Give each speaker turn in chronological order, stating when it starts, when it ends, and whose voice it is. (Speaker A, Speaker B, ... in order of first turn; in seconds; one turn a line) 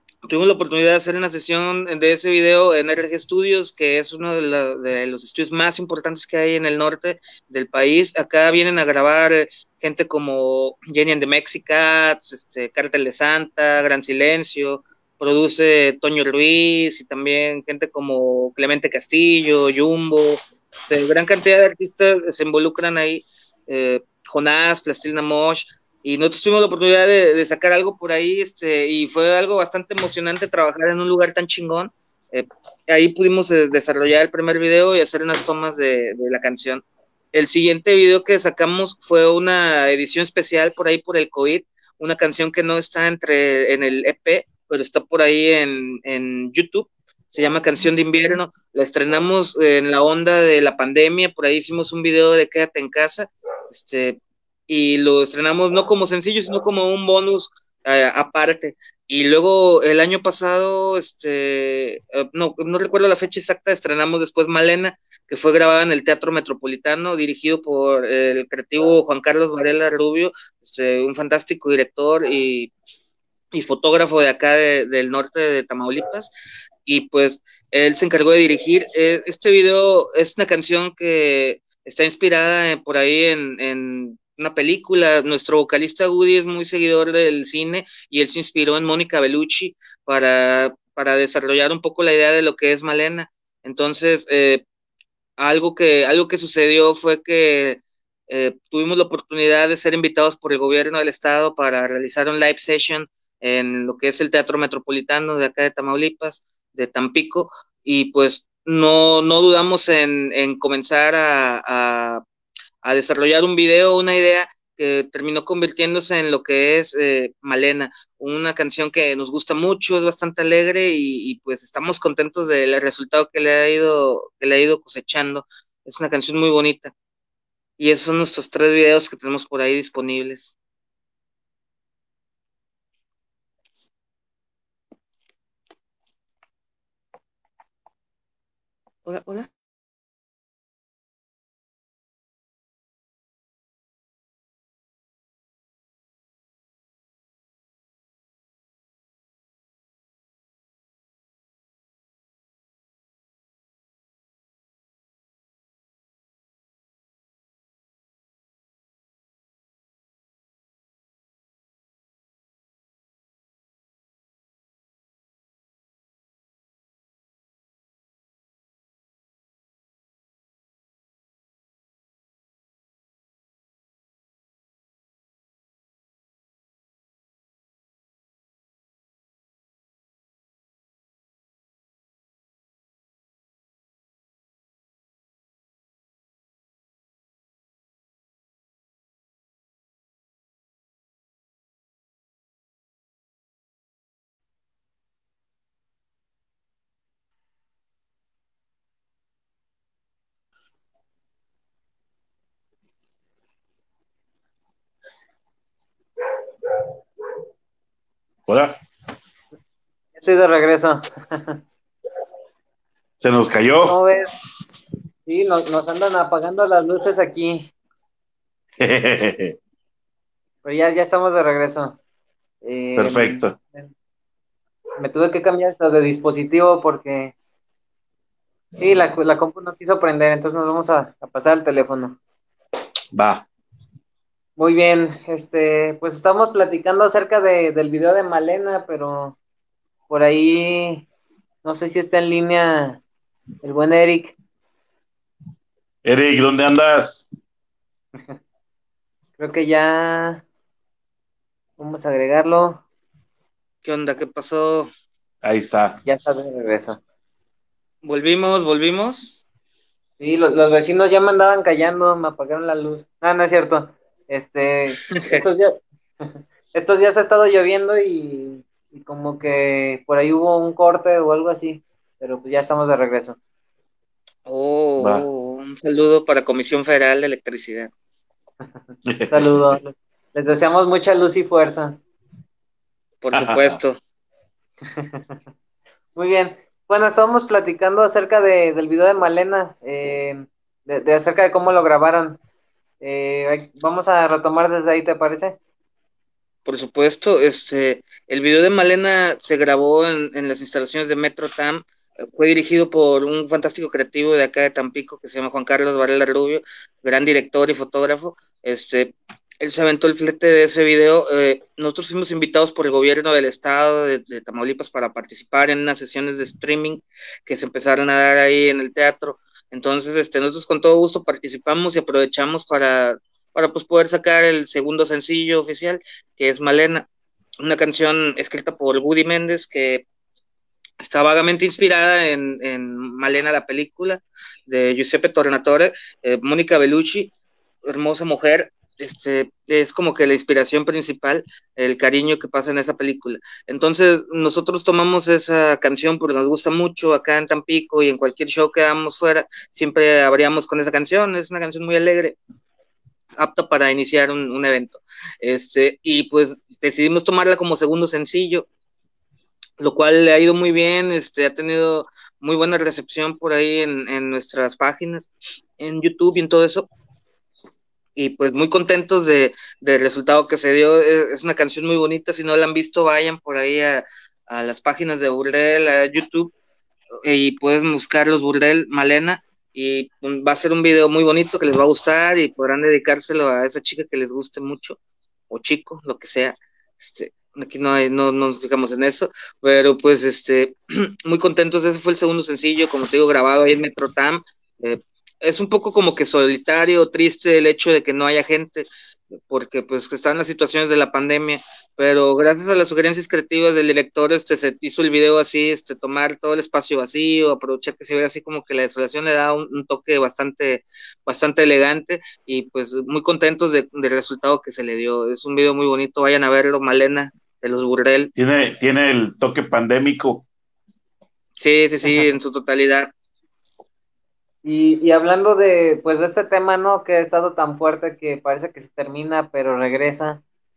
Speaker A: 0.3-36.8
Speaker A: 37.3-72.7
Speaker A: 73.5-76.3
Speaker A: 76.9-94.6
Speaker A: 95.4-112.2
Speaker A: 112.8-126.9
Speaker A: 127.8-130.6
Speaker A: 139.1-139.5
Speaker B: 208.5-208.8
Speaker C: 210.2-211.6
Speaker B: 213.2-214.0
Speaker C: 213.8-214.3
Speaker C: 215.3-217.7
Speaker B: 218.8-219.6
Speaker C: 220.6-222.0
Speaker C: 222.6-223.9
Speaker B: 223.0-223.6
Speaker C: 225.0-227.3
Speaker C: 228.8-232.2
Speaker B: 233.1-233.5
Speaker C: 234.6-239.4
Speaker C: 240.1-241.1
Speaker C: 241.6-243.0
Speaker C: 243.6-244.4
Speaker B: 246.1-247.2
Speaker C: 249.4-250.4
Speaker C: 251.8-252.8
Speaker A: 253.8-254.9
Speaker B: 255.4-256.0
Speaker C: 256.1-257.0
Speaker A: 258.0-259.4
Speaker C: 260.2-273.4
Speaker A: 265.1-265.4
Speaker A: 274.5-277.9
Speaker B: 275.0-275.2
Speaker B: 279.1-279.7
Speaker C: 279.3-282.0
Speaker A: 283.2-284.0
Speaker B: 283.3-283.8
Speaker C: 284.9-285.4
Speaker C: 286.1-292.4
Speaker C: 293.0-295.6
Speaker A: 296.7-327.1
Speaker A: 327.6-330.0
Speaker A: 331.0-337.3
Speaker A: 337.9-352.4
Speaker A: 353.4-358.7
Speaker A: 359.8-366.9
Speaker A: 368.2-376.5
Speaker A: 377.2-385.0
Speaker A: 385.5-398.9
Speaker A: 399.5-418.3
Speaker B: 418.4-420.5
Speaker A: 421.6-423.1
Speaker C: 424.6-430.4